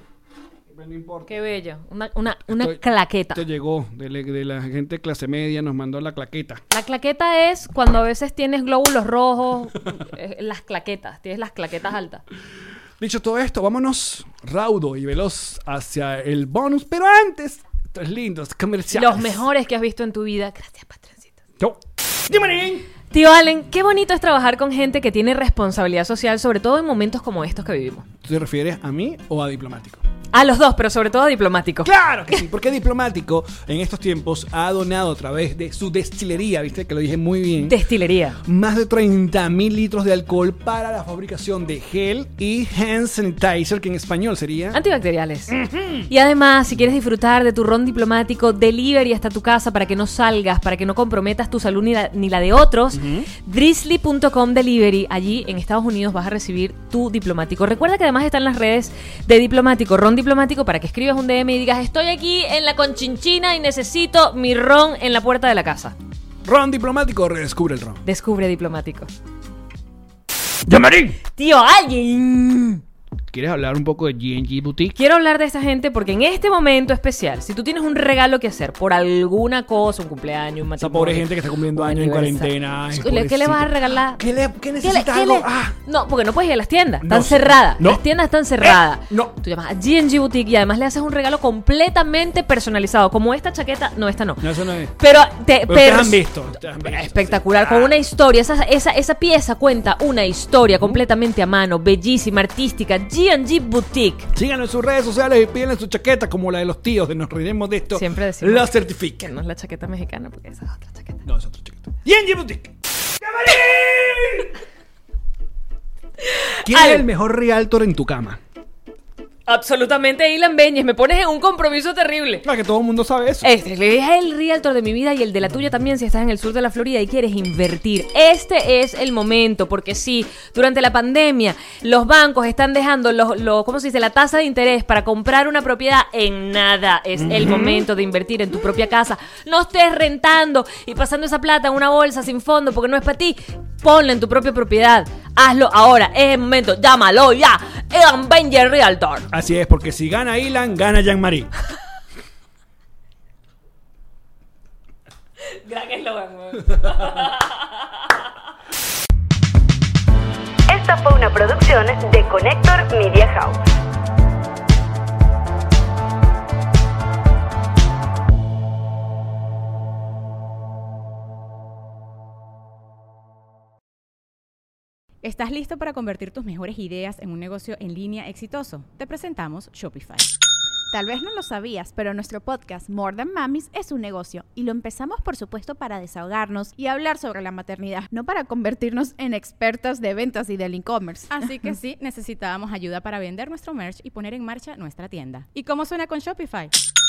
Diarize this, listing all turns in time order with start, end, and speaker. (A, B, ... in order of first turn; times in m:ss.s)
0:00.7-0:01.4 A
0:01.3-0:03.4 B
0:02.5-0:02.8 A
0:03.3-0:06.6 A
0:06.7-0:12.2 B
0:13.0-0:19.5 A
0:18.9-0:21.3 B
0:21.6-0:22.9 A
0:23.1-0:28.1 B
0:28.2-0:30.0 A
0:30.3-0:31.9 B
0:31.8-0:37.8 A
0:37.6-0:38.4 B
0:38.4-0:44.8 A
0:44.7-0:45.6 B
0:45.5-0:46.1 A
0:46.1-1:06.0 B
0:52.9-0:53.3 A
1:06.4-1:08.0 A
1:08.0-1:09.1 B
1:10.6-1:11.2 A
1:11.3-1:12.8 B
1:13.3-1:15.0 A
1:15.0-1:24.2 B
1:20.8-1:25.8 A
1:24.8-1:36.3 B
1:27.0-1:28.0 A
1:28.6-1:29.4 A
1:34.4-1:35.0 A
1:35.7-1:38.0 A
1:36.8-1:44.3 B
1:44.4-1:49.3 A
1:47.9-1:51.2 B
1:51.2-1:54.6 A
1:56.2-1:57.1 B
1:56.6-1:58.4 A
1:59.5-2:02.5 B
2:02.4-2:03.5 A
2:03.4-2:29.3 B
2:17.3-2:17.9 A
2:29.3-2:31.5 A
2:35.4-2:37.7 B
2:40.7-2:43.6 C
2:55.2-3:00.3 D
3:00.9-3:11.4 E
3:11.3-3:16.7 D